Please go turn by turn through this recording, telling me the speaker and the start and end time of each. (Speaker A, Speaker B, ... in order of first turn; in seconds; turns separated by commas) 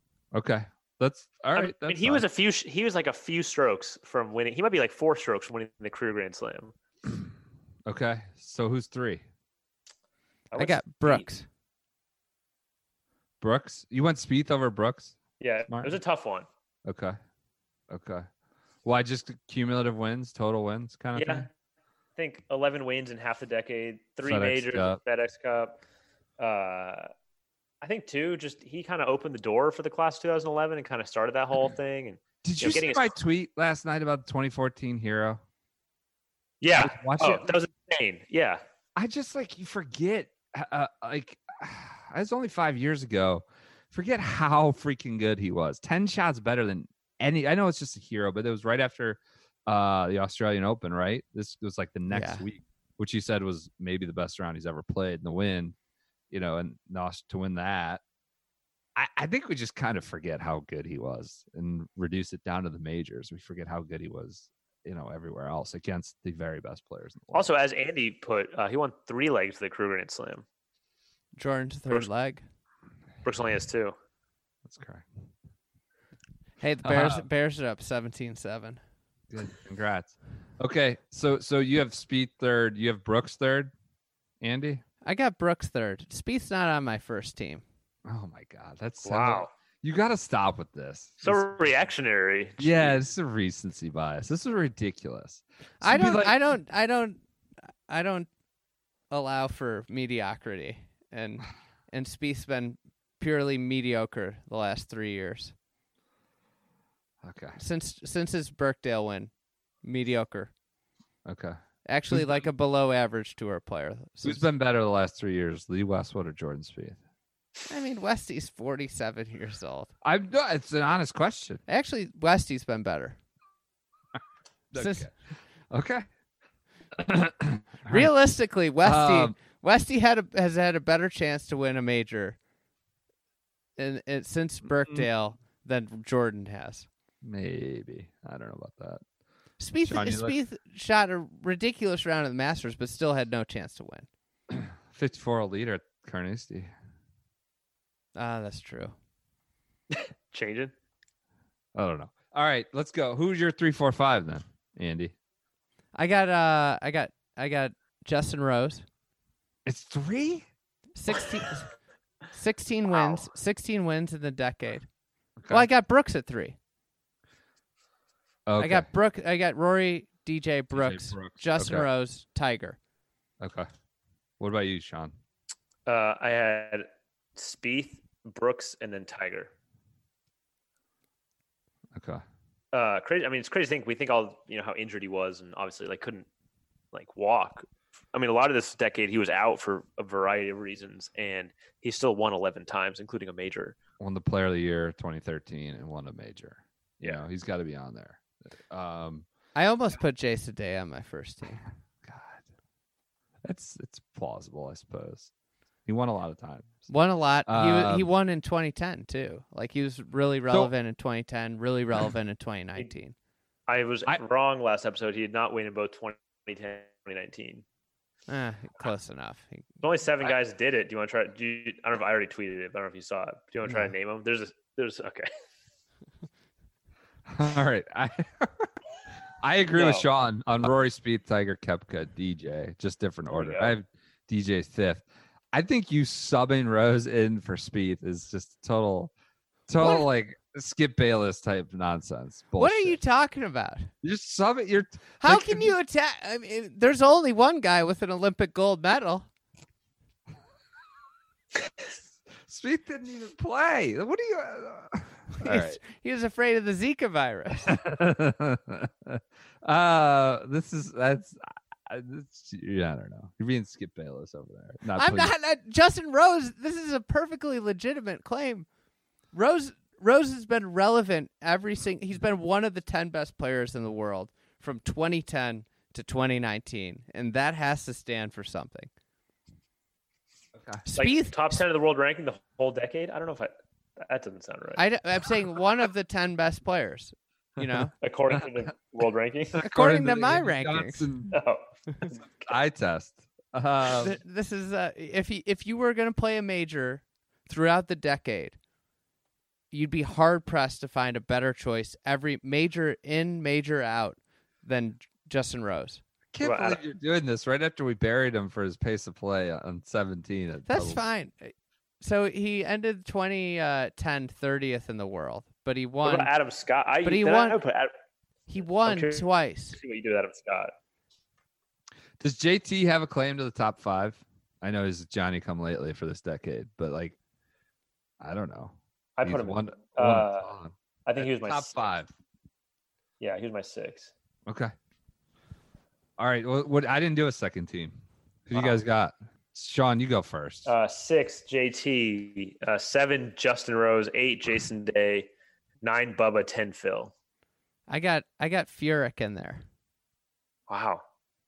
Speaker A: 0.3-2.2, Speaker B: 1.5-6.7, Speaker A: 7.8-9.2, Speaker B: 10.5-11.3, Speaker C: 10.5-11.4, Speaker A: 13.4-16.0, Speaker B: 15.4-16.5, Speaker A: 16.9-17.2, Speaker A: 17.9-18.2, Speaker A: 18.8-21.5, Speaker B: 21.1-21.5, Speaker B: 22.2-25.8, Speaker A: 24.2-25.0, Speaker B: 26.4-27.1, Speaker B: 27.8-33.1, Speaker A: 32.4-35.4, Speaker B: 36.6-38.6, Speaker A: 36.7-37.5, Speaker A: 39.0-55.8, Speaker C: 52.1-52.4, Speaker A: 56.3-58.0, Speaker A: 59.0-67.5, Speaker B: 67.3-70.4, Speaker C: 71.3-72.4, Speaker B: 73.2-73.9, Speaker A: 74.6-75.1, Speaker C: 76.6-78.8, Speaker A: 76.8-77.2, Speaker A: 79.3-83.7, Speaker A: 84.4-84.8, Speaker C: 85.0-87.6, Speaker A: 88.0-91.6, Speaker B: 89.0-89.5, Speaker B: 91.2-93.0, Speaker A: 92.6-96.4, Speaker C: 95.8-97.2, Speaker C: 97.9-98.3, Speaker C: 99.1-105.5, Speaker A: 107.2-107.6, Speaker C: 107.6-109.3, Speaker C: 109.8-110.5, Speaker A: 111.2-111.6, Speaker C: 111.8-114.5, Speaker A: 112.1-112.4, Speaker A: 114.2-117.0, Speaker C: 117.7-119.9, Speaker A: 120.0-121.6, Speaker C: 121.7-123.2, Speaker A: 124.7-125.1, Speaker C: 124.7-125.1, Speaker A: 125.7-126.0, Speaker A: 127.0-128.1, Speaker C: 127.9-132.4, Speaker A: 128.8-129.3, Speaker C: 133.8-136.9, Speaker A: 134.8-135.1, Speaker A: 137.2-139.0, Speaker C: 139.6-144.1, Speaker A: 139.8-140.3, Speaker A: 144.5-146.7, Speaker C: 148.2-148.9, Speaker B: 149.9-150.7, Speaker A: 151.7-155.1, Speaker C: 155.9-158.8, Speaker A: 159.7-160.5, Speaker C: 160.9-161.7, Speaker C: 162.3-164.9, Speaker B: 162.9-163.2, Speaker A: 165.4-165.7, Speaker C: 165.5-166.6, Speaker A: 168.5-168.9, Speaker C: 168.6-172.8, Speaker A: 170.7-171.9, Speaker A: 173.4-173.7, Speaker A: 174.4-175.1, Speaker B: 175.8-179.5, Speaker A: 181.9-182.2, Speaker B: 182.7-186.3, Speaker B: 186.9-193.8, Speaker A: 194.0-199.2, Speaker C: 199.5-201.6, Speaker A: 202.0-202.4, Speaker A: 203.4-205.3, Speaker A: 205.8-206.9, Speaker C: 206.9-213.1, Speaker A: 207.5-208.1, Speaker B: 213.7-217.6, Speaker C: 218.3-219.6, Speaker B: 219.8-225.3, Speaker A: 227.2-228.7, Speaker A: 229.4-239.1, Speaker B: 229.7-230.0, Speaker B: 233.3-233.7, Speaker A: 239.7-243.0, Speaker C: 242.6-243.9, Speaker A: 244.0-245.7, Speaker C: 245.2-249.3, Speaker A: 252.4-255.8, Speaker C: 255.4-257.8, Speaker A: 257.6-265.3, Speaker C: 264.9-268.7, Speaker C: 269.3-278.9, Speaker A: 280.5-280.8, Speaker C: 280.9-281.3, Speaker B: 280.9-284.8, Speaker C: 284.8-287.9, Speaker B: 288.0-289.6, Speaker A: 289.5-291.4, Speaker C: 289.6-291.0, Speaker B: 291.3-292.4, Speaker A: 292.4-294.2, Speaker C: 294.0-298.6, Speaker C: 299.7-306.0, Speaker A: 306.3-311.0, Speaker B: 306.4-306.8, Speaker C: 310.7-316.3, Speaker B: 316.0-317.9, Speaker C: 317.0-317.6, Speaker C: 318.5-319.8, Speaker B: 318.8-320.7, Speaker A: 322.2-327.2, Speaker A: 328.2-332.1, Speaker B: 329.2-330.5, Speaker B: 331.1-331.8, Speaker B: 333.2-334.1, Speaker A: 334.5-334.7, Speaker A: 336.2-337.9, Speaker A: 338.5-340.7, Speaker B: 338.5-338.8, Speaker B: 340.6-345.3, Speaker B: 345.8-347.1, Speaker C: 347.9-349.6, Speaker B: 350.7-351.0